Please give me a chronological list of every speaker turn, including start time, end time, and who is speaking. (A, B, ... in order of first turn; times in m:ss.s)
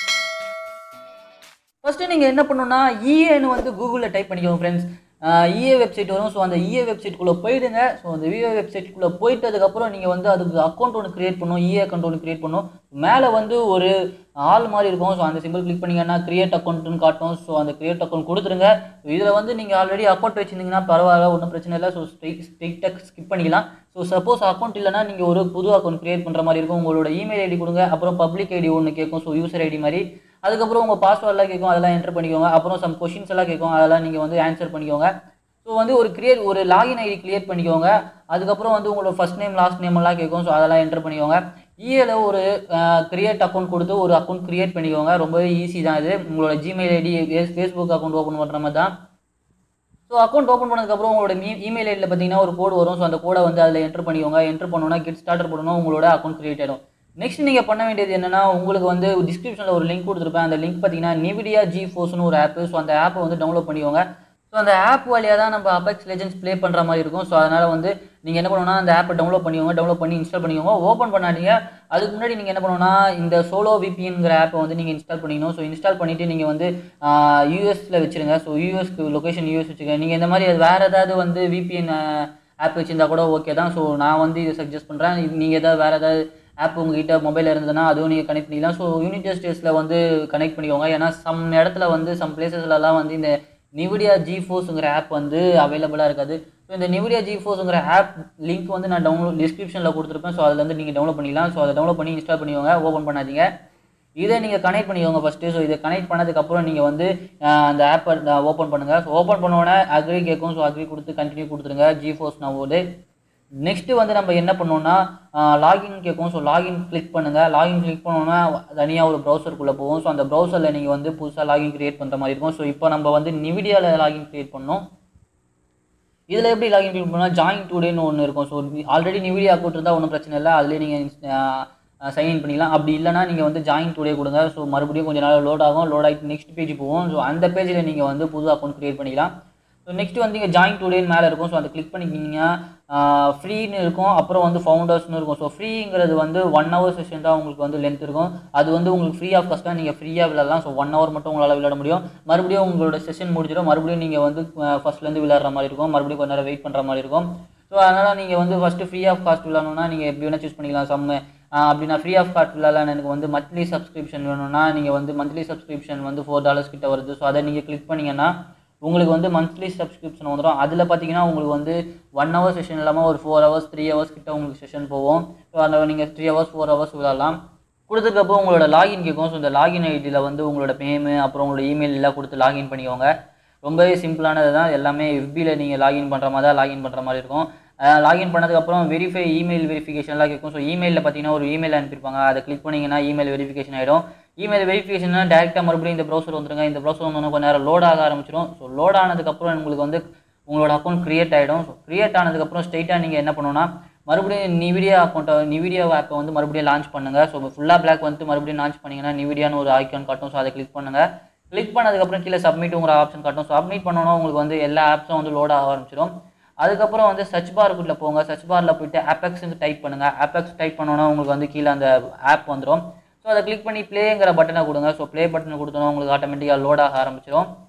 0:01.8-0:35.1 A
0:35.6-0:48.9 A
0:50.1-1:43.5 A
1:44.2-1:52.8 A
1:53.6-2:04.8 A
2:06.3-2:19.3 A
2:19.8-2:48.3 A
2:48.8-2:57.4 A
2:57.9-3:03.1 A
3:03.6-3:36.1 A
3:36.6-3:47.5 A